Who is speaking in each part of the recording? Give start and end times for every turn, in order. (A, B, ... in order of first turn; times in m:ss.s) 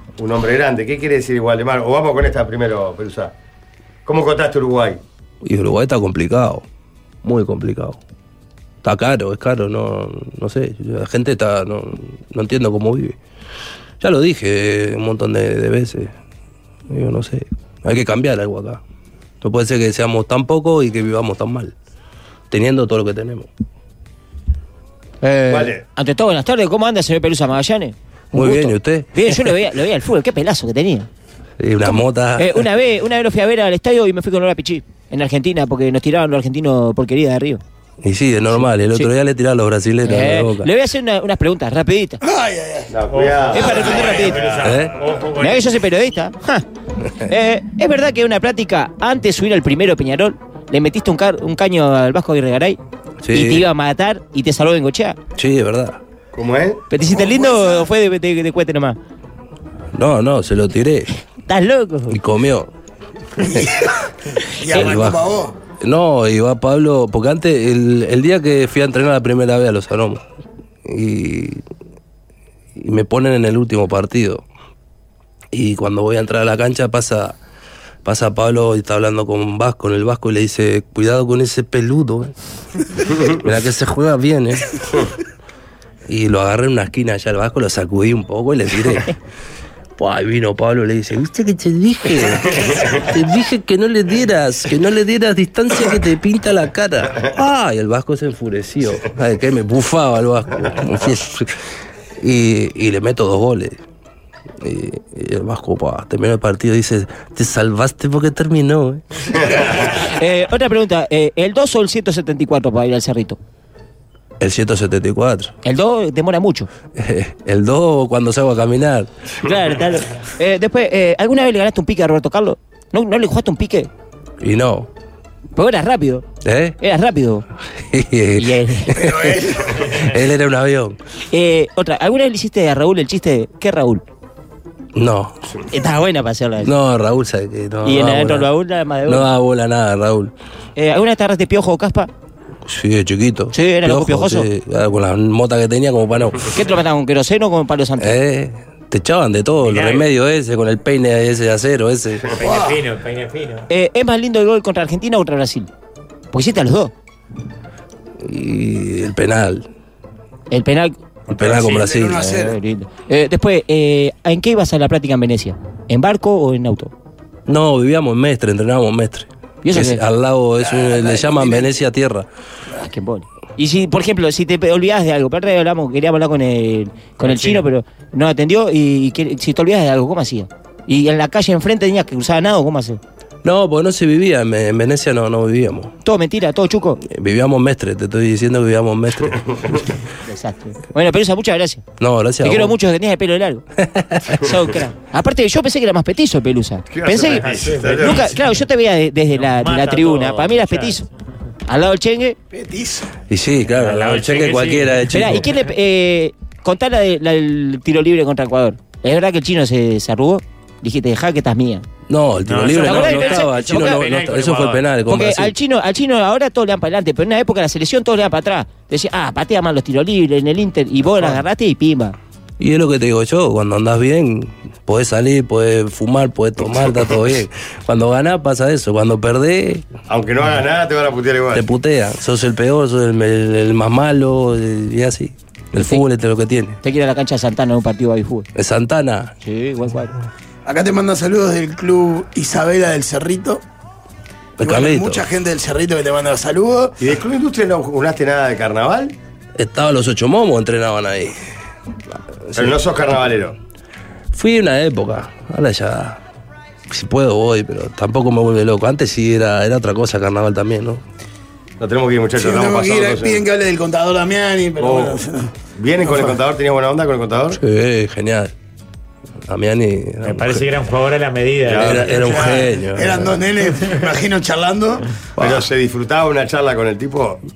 0:00.2-0:03.3 A
0:04.1-0:05.0 A
0:05.4-0:06.6 B
0:07.2-0:08.0 B
0:08.8-0:13.2 B
0:14.0-0:16.1 B
0:16.9-0:18.8 B
0:19.4-0:21.7 B
0:22.5-0:23.5 B
0:25.2-0:31.1 C
0:25.5-0:25.8 A
0:28.3-0:29.5 B
0:31.6-0:32.6 B
0:31.8-0:37.6 C
0:38.0-0:40.7 B
0:38.5-0:39.1 C
0:40.0-0:42.2 C
0:42.2-0:42.9 D
0:42.9-0:44.6 A
0:43.1-0:45.7 E
0:43.5-0:44.4 C
0:43.8-0:44.3 D
0:44.6-0:45.0 B
0:45.4-0:46.6 C
0:47.2-0:52.8 C
0:53.2-0:53.7 B
0:53.3-0:55.2 C
0:55.4-0:56.0 B
0:56.4-0:56.8 A
0:56.9-0:59.0 C
0:57.1-0:57.9 D
1:00.0-1:01.2 B
1:01.5-1:02.2 C
1:02.1-1:02.7 B
1:03.4-1:05.6 D
1:03.4-1:03.7 B
1:04.8-1:10.2 B
1:10.8-1:11.6 B
1:12.8-1:14.4 B
1:15.5-1:17.4 B
1:18.0-1:22.3 B
1:23.2-1:25.1 B
1:26.1-1:29.1 B
1:30.0-1:41.6 B
1:42.2-1:43.8 B
1:44.6-1:49.8 B
1:50.0-1:53.4 C
1:54.4-1:55.5 B
1:55.6-1:56.7 C
1:57.0-1:59.1 B
1:59.4-2:03.9 C
2:04.4-2:04.9 B
2:05.6-2:06.2 C
2:06.4-2:06.8 B
2:06.8-2:07.4 C
2:07.8-2:11.0 B
2:08.4-2:09.0 C
2:08.9-2:10.0 D
2:11.3-2:14.0 C
2:15.0-2:15.4 B
2:15.7-2:16.7 C
2:16.6-2:18.5 B
2:17.8-2:19.3 C
2:19.1-2:20.3 B
2:20.8-2:22.1 C
2:22.6-2:26.6 B
2:23.5-2:24.5 C
2:26.5-2:28.2 C
2:28.0-2:32.3 B
2:29.6-2:30.1 E
2:32.3-2:33.7 E
2:32.4-2:32.8 D
2:33.7-2:35.7 C
2:36.3-2:36.9 C
2:38.2-2:39.7 B
2:40.5-2:40.9 C
2:41.3-2:42.3 B
2:41.3-2:42.6 D
2:42.2-2:46.9 C
2:47.5-2:52.3 B
2:49.6-2:50.0 C
2:50.6-2:51.8 D
2:52.8-3:03.0 C
2:57.2-2:57.7 E
3:03.4-3:05.9 B
3:06.0-3:07.0 C
3:07.0-3:09.8 B
3:10.2-3:11.8 C
3:12.0-3:12.8 B
3:12.4-3:13.6 C
3:13.8-3:14.4 B
3:14.4-3:21.0 C
3:16.9-3:18.3 A
3:17.3-3:18.6 E
3:19.3-3:21.0 E
3:21.7-3:22.4 C
3:22.5-3:23.1 D
3:23.3-3:25.5 B
3:23.8-3:25.4 E
3:25.1-3:31.9 C
3:32.1-3:35.5 B
3:32.4-3:34.9 E
3:32.7-3:34.0 C
3:35.1-3:42.2 C
3:42.6-3:49.9 B
3:50.1-3:51.6 A
3:51.5-3:56.8 B
3:55.8-3:56.1 C
3:56.8-3:58.5 C
3:58.6-3:59.3 B
3:59.4-4:00.2 C
4:00.6-4:03.6 D
4:04.6-4:05.3 B
4:04.6-4:07.0 D
4:07.0-4:09.2 A
4:09.6-4:11.4 B
4:12.5-4:12.8 B
4:12.6-4:13.6 A
4:14.3-4:16.2 B
4:16.9-4:21.0 B
4:21.8-4:23.4 A
4:22.4-4:26.4 D
4:24.8-4:25.2 A
4:25.8-4:27.6 A
4:27.5-4:28.5 B
4:29.5-4:30.7 B
4:30.2-4:32.1 E
4:31.7-4:32.7 A
4:31.7-4:33.4 B
4:32.2-4:35.1 D
4:35.4-4:37.4 A
4:35.4-4:35.7 B